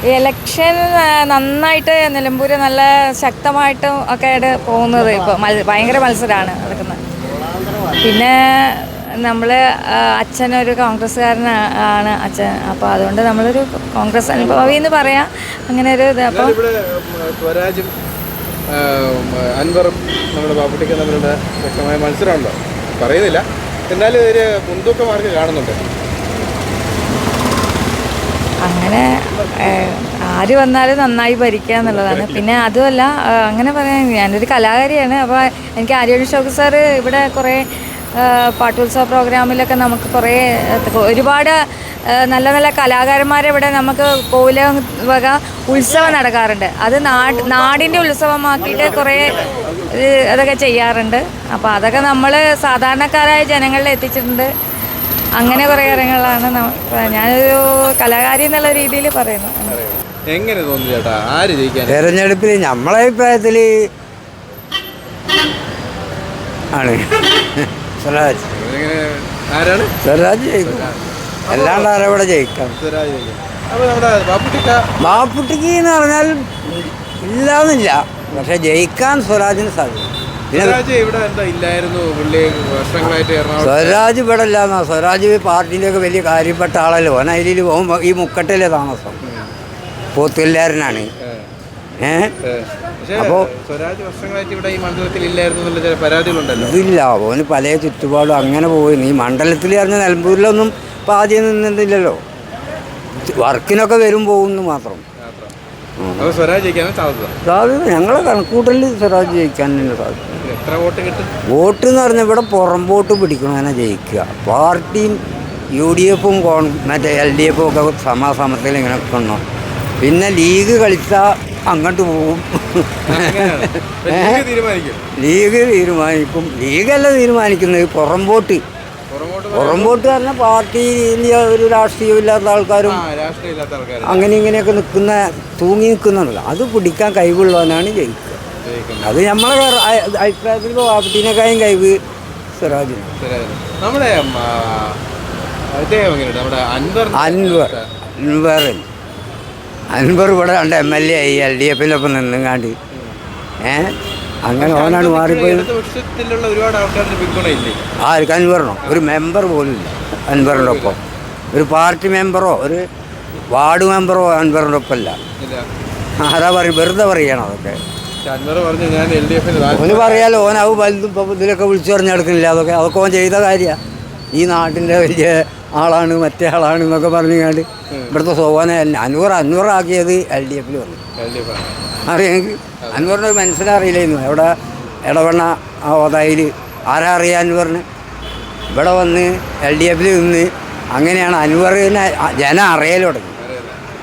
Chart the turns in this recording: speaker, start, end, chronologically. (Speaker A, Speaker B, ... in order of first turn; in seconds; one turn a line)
Speaker A: 0.1-7.0
Speaker A: 7.9-16.5
Speaker B: 16.3-17.9
Speaker B: 18.7-25.8
Speaker A: 28.6-37.6
Speaker B: 31.8-32.4
Speaker A: 38.2-41.6
Speaker A: 42.1-54.5
Speaker A: 55.4-59.7
Speaker B: 59.7-62.1
Speaker C: 61.9-63.7
Speaker C: 66.7-68.5
Speaker B: 68.5-69.9
Speaker C: 70.0-70.9
Speaker B: 70.6-71.9
Speaker C: 71.5-72.8
Speaker B: 72.8-75.2
Speaker C: 75.0-80.8
Speaker B: 80.5-84.0
Speaker C: 83.6-89.2
Speaker B: 89.2-89.5
Speaker C: 90.1-91.1
Speaker B: 91.2-91.5
Speaker C: 92.0-92.3
Speaker B: 92.4-96.8
Speaker C: 93.1-93.5
Speaker C: 96.5-102.2
Speaker C: 103.2-105.0
Speaker B: 105.2-105.5
Speaker C: 106.0-106.3
Speaker B: 106.2-107.3
Speaker C: 107.4-110.4
Speaker B: 110.4-111.3
Speaker C: 111.5-115.2
Speaker C: 115.7-119.4
Speaker C: 120.0-124.4
Speaker B: 123.1-125.0
Speaker C: 125.2-128.6
Speaker B: 129.1-130.1
Speaker C: 129.5-133.0
Speaker B: 132.8-134.3
Speaker C: 134.0-138.4
Speaker B: 138.6-139.2
Speaker C: 139.0-142.0
Speaker C: 142.6-143.1
Speaker B: 143.2-145.0
Speaker B: 145.7-147.9
Speaker C: 147.1-148.9
Speaker C: 149.9-152.8
Speaker B: 152.9-153.2
Speaker C: 153.6-155.7
Speaker B: 154.6-157.8
Speaker C: 158.0-161.0
Speaker B: 160.3-161.0
Speaker C: 161.5-162.8
Speaker C: 163.5-165.2
Speaker B: 165.4-165.7
Speaker C: 166.2-167.8
Speaker B: 168.2-170.7
Speaker C: 169.7-173.8
Speaker C: 174.3-181.0
Speaker B: 177.9-178.1
Speaker B: 181.2-181.7
Speaker C: 182.0-187.8
Speaker B: 182.8-183.1
Speaker C: 188.7-193.3
Speaker B: 193.4-193.8